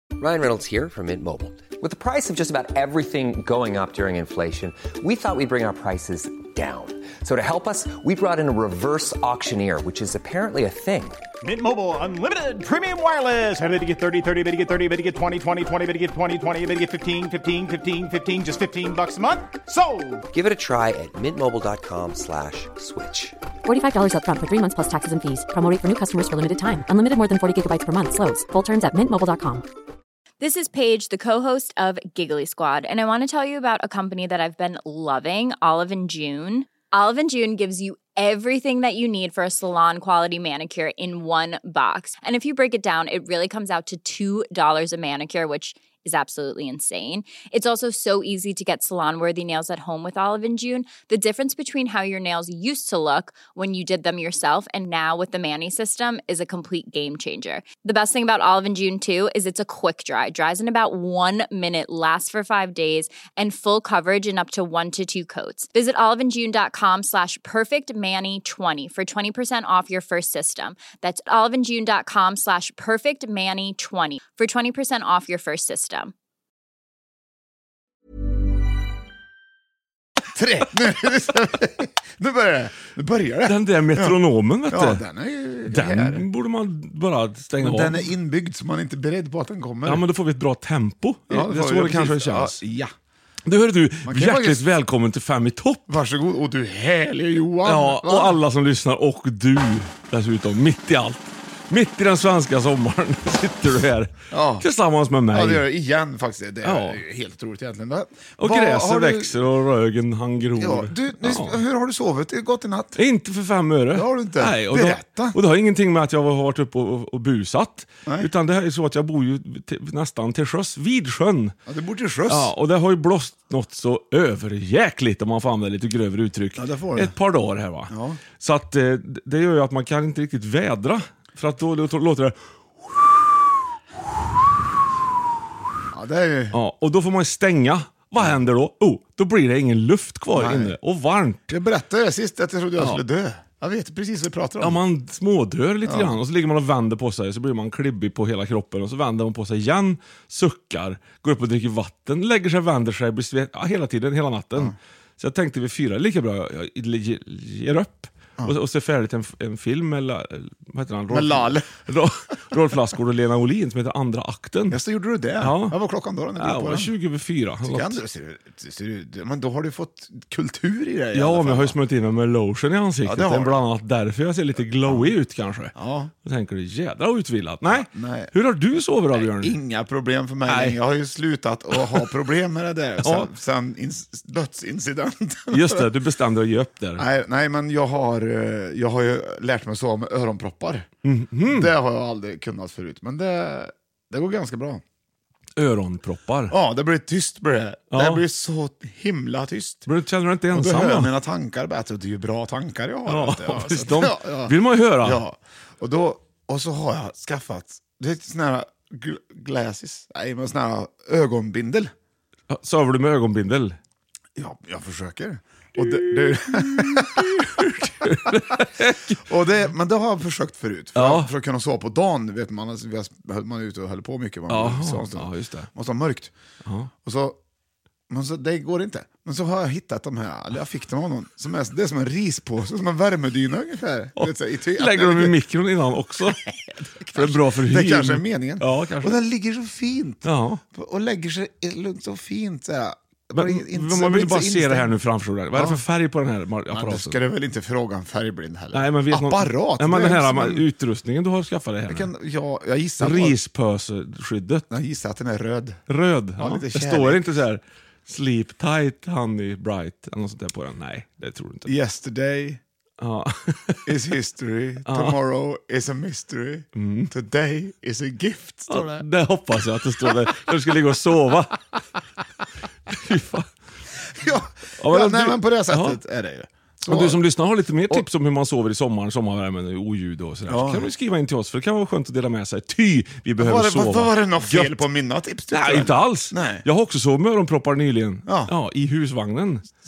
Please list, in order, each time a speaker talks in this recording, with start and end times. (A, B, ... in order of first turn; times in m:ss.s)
0:00.2-0:11.2 A
0:11.4-0:20.2 B
0:20.3-0:23.4 A
0:23.6-0:29.6 C
0:30.4-1:16.1 D
1:20.3-1:26.2 E
1:23.4-1:25.0 F
1:25.7-1:28.1 F
1:27.6-1:30.0 E
1:29.8-1:32.6 F
1:31.3-1:32.9 E
1:33.4-1:35.9 F
1:34.0-1:34.6 E
1:35.9-1:38.4 E
1:37.6-1:45.6 F
1:44.3-1:44.7 E
1:45.3-1:49.4 E
1:46.6-1:47.0 F
1:48.4-1:51.6 F
1:50.6-1:53.0 E
1:53.0-2:01.5 F
1:53.9-1:55.4 E
2:01.7-2:02.5 E
2:02.3-2:13.2 F
2:06.6-2:07.1 E
2:07.9-2:08.2 E
2:15.9-2:16.6 E
2:16.5-2:21.4 F
2:20.3-2:20.7 E
2:21.5-2:24.8 E
2:24.6-2:44.8 F
2:25.8-2:26.2 E
2:41.1-2:41.8 E
2:44.7-2:46.9 E
2:45.4-2:45.8 F
2:46.4-2:48.0 F
2:47.6-2:51.8 E
2:51.1-2:55.7 F
2:53.0-2:53.6 E
2:54.9-2:55.1 E
2:55.7-2:56.1 E
2:56.2-2:59.6 F
2:57.7-2:58.3 E
2:59.1-3:05.9 E
3:00.5-3:00.8 F
3:01.8-3:02.1 F
3:03.0-3:03.3 F
3:05.5-3:07.0 F
3:07.0-3:10.9 E
3:11.0-3:11.7 F
3:11.4-3:14.8 E
3:15.6-3:16.6 F
3:16.5-3:19.9 E
3:17.9-3:18.2 F
3:19.8-3:21.1 F
3:20.5-3:31.9 E
3:23.1-3:25.2 F
3:32.5-3:33.8 F
3:34.4-3:38.4 E
3:35.8-3:39.2 F
3:39.2-3:46.3 E
3:41.0-3:41.3 F
3:44.5-3:45.7 F
3:46.6-3:46.9 F
3:47.0-3:47.4 E
3:48.1-3:55.4 E
3:54.2-3:56.4 F
3:56.3-4:05.0 E
3:57.1-3:59.2 F
4:00.2-4:00.6 F
4:03.3-4:07.2 F
4:05.5-4:05.8 E
4:06.7-4:10.6 E
4:08.7-4:12.1 F
4:11.9-4:13.4 E
4:13.0-4:14.6 F
4:14.7-4:15.8 E
4:15.9-4:21.7 F
4:16.4-4:17.3 E
4:21.6-4:22.6 E
4:23.0-4:24.0 F
4:23.8-4:29.0 E
4:24.9-4:25.2 F
4:26.8-4:27.1 F
4:28.7-4:31.6 F
4:32.9-4:33.5 F
4:34.2-4:37.2 E
4:34.8-4:36.0 F
4:36.9-4:44.8 F
4:40.5-4:40.9 E
4:43.4-4:46.6 E
4:45.5-4:49.7 F
4:48.2-4:48.5 E